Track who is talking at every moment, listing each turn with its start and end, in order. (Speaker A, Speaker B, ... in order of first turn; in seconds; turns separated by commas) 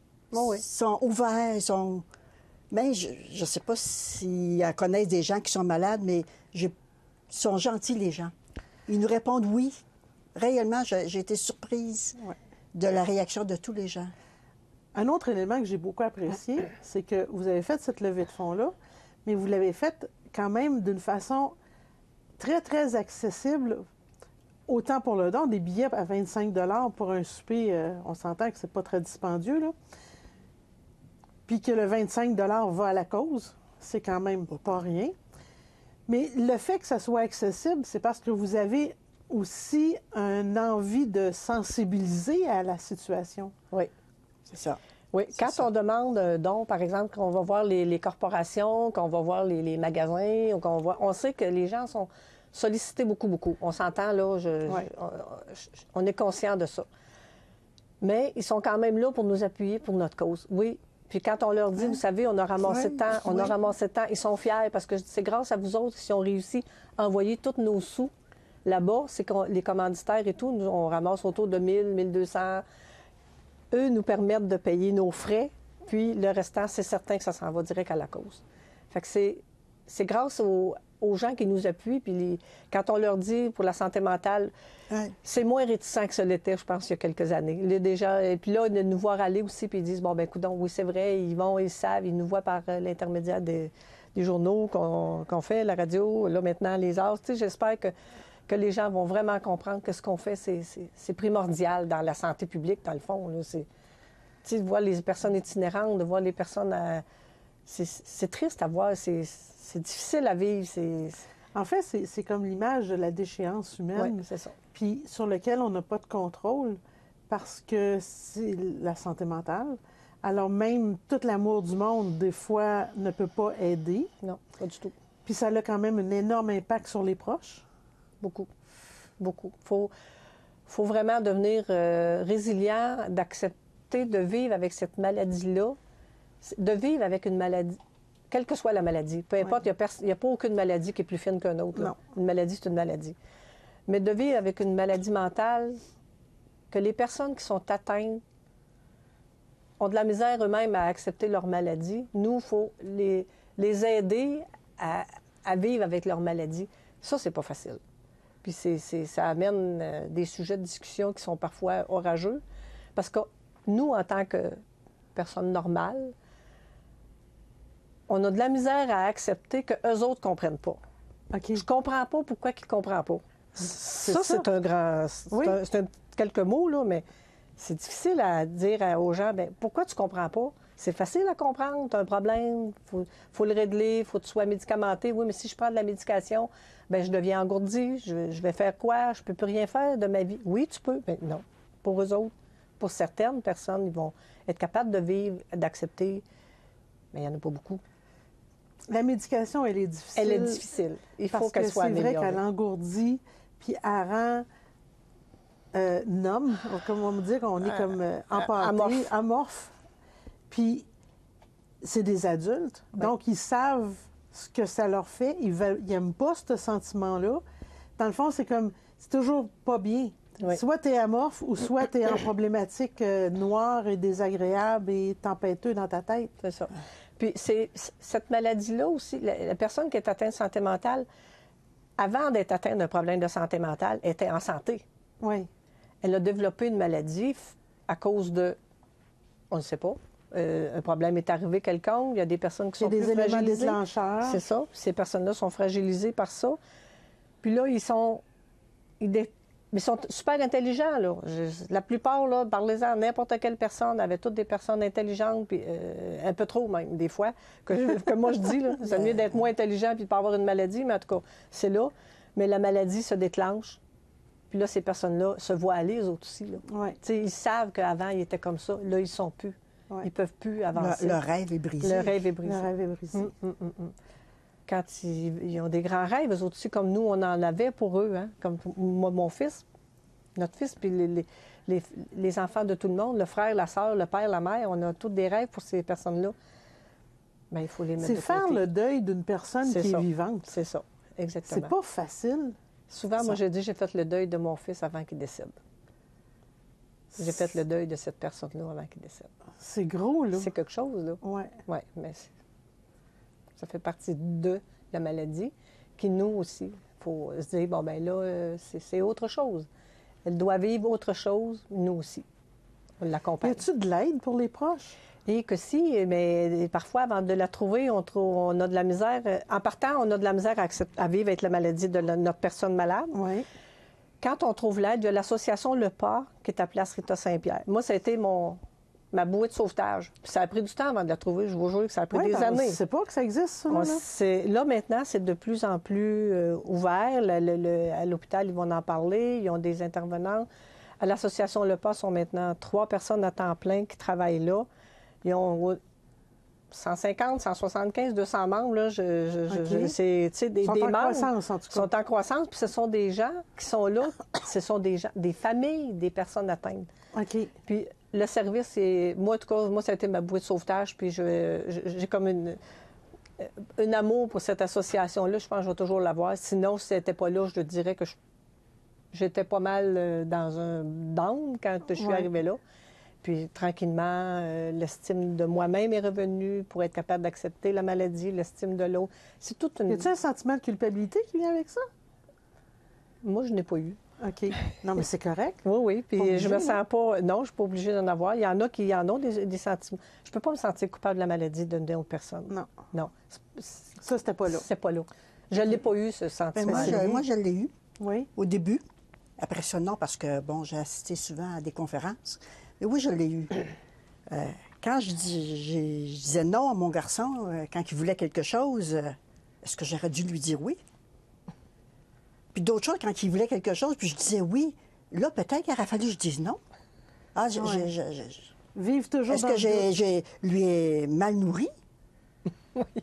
Speaker A: 0.3-0.6, Speaker B: 0.3-2.1, Speaker B: 2.7-6.7, Speaker B: 7.3-8.3, Speaker B: 8.9-9.8, Speaker B: 10.4-12.2, Speaker B: 12.8-14.1, Speaker C: 14.9-18.7, Speaker C: 19.2-21.5, Speaker C: 22.4-23.8, Speaker C: 24.7-29.7, Speaker C: 31.5-35.1, Speaker C: 36.1-43.5, Speaker B: 44.5-44.8, Speaker A: 45.1-56.9, Speaker B: 45.3-45.6, Speaker A: 58.0-68.1, Speaker B: 62.7-63.5, Speaker A: 68.7-72.6, Speaker A: 73.7-84.5, Speaker A: 85.2-97.9, Speaker A: 98.5-103.7, Speaker A: 104.4-107.0, Speaker A: 107.7-111.2, Speaker C: 111.5-124.1, Speaker A: 114.0-114.6, Speaker A: 124.2-125.0, Speaker C: 125.2-127.6, Speaker A: 128.2-128.5, Speaker A: 129.2-129.9, Speaker A: 130.7-135.8, Speaker A: 136.4-137.8, Speaker A: 138.3-143.2, Speaker A: 143.9-145.8, Speaker A: 146.7-148.2, Speaker A: 149.8-157.8, Speaker A: 158.4-162.4, Speaker A: 163.0-164.6, Speaker A: 165.2-166.1, Speaker A: 168.1-170.8, Speaker C: 171.3-171.7, Speaker A: 171.6-177.1, Speaker C: 174.0-174.4, Speaker C: 175.3-175.6, Speaker A: 177.6-196.2, Speaker A: 197.1-197.8, Speaker C: 198.9-200.7, Speaker A: 200.2-202.4, Speaker C: 201.3-204.5, Speaker C: 205.7-209.7, Speaker A: 207.6-209.1, Speaker C: 210.5-210.8, Speaker C: 211.8-217.4, Speaker C: 218.0-226.3, Speaker A: 226.4-231.1, Speaker A: 232.0-234.8, Speaker C: 235.2-235.5, Speaker A: 236.0-238.6, Speaker A: 239.5-246.6, Speaker C: 242.8-244.4, Speaker A: 247.4-248.2, Speaker A: 249.0-263.8, Speaker B: 258.9-259.2, Speaker A: 264.5-271.2, Speaker C: 266.7-267.0, Speaker B: 270.8-272.1, Speaker A: 271.8-273.9, Speaker C: 271.9-273.3, Speaker A: 274.7-279.6, Speaker A: 280.4-286.4, Speaker A: 287.5-288.6, Speaker C: 288.0-290.5, Speaker A: 289.6-291.7, Speaker C: 291.5-292.6, Speaker A: 292.9-295.6, Speaker C: 297.1-297.5, Speaker A: 297.2-299.3, Speaker C: 299.6-300.5, Speaker A: 300.4-302.3, Speaker C: 301.2-301.6, Speaker A: 303.6-309.7, Speaker A: 310.2-312.3, Speaker A: 313.0-313.6, Speaker C: 313.4-315.0, Speaker A: 315.3-323.2, Speaker C: 323.1-323.5, Speaker A: 324.2-328.6, Speaker A: 329.1-332.8, Speaker C: 332.1-334.0, Speaker A: 333.7-340.5, Speaker A: 341.0-344.7, Speaker A: 345.2-345.8, Speaker A: 346.7-356.9, Speaker C: 349.5-349.9, Speaker C: 350.6-351.9, Speaker C: 357.1-357.5, Speaker A: 357.7-362.6, Speaker A: 363.4-368.2, Speaker A: 369.1-372.6, Speaker C: 372.0-372.3, Speaker A: 373.2-380.1, Speaker C: 379.9-381.9, Speaker A: 383.2-384.0, Speaker C: 384.2-385.6, Speaker A: 385.6-397.1, Speaker C: 386.2-386.8, Speaker C: 394.0-394.7, Speaker B: 396.6-397.7, Speaker C: 396.7-397.2, Speaker C: 398.0-398.3, Speaker B: 398.4-398.8, Speaker B: 399.4-403.7, Speaker B: 404.3-410.8, Speaker B: 412.5-416.6, Speaker B: 417.4-418.5, Speaker C: 417.6-417.9, Speaker C: 418.8-419.9, Speaker B: 419.3-421.7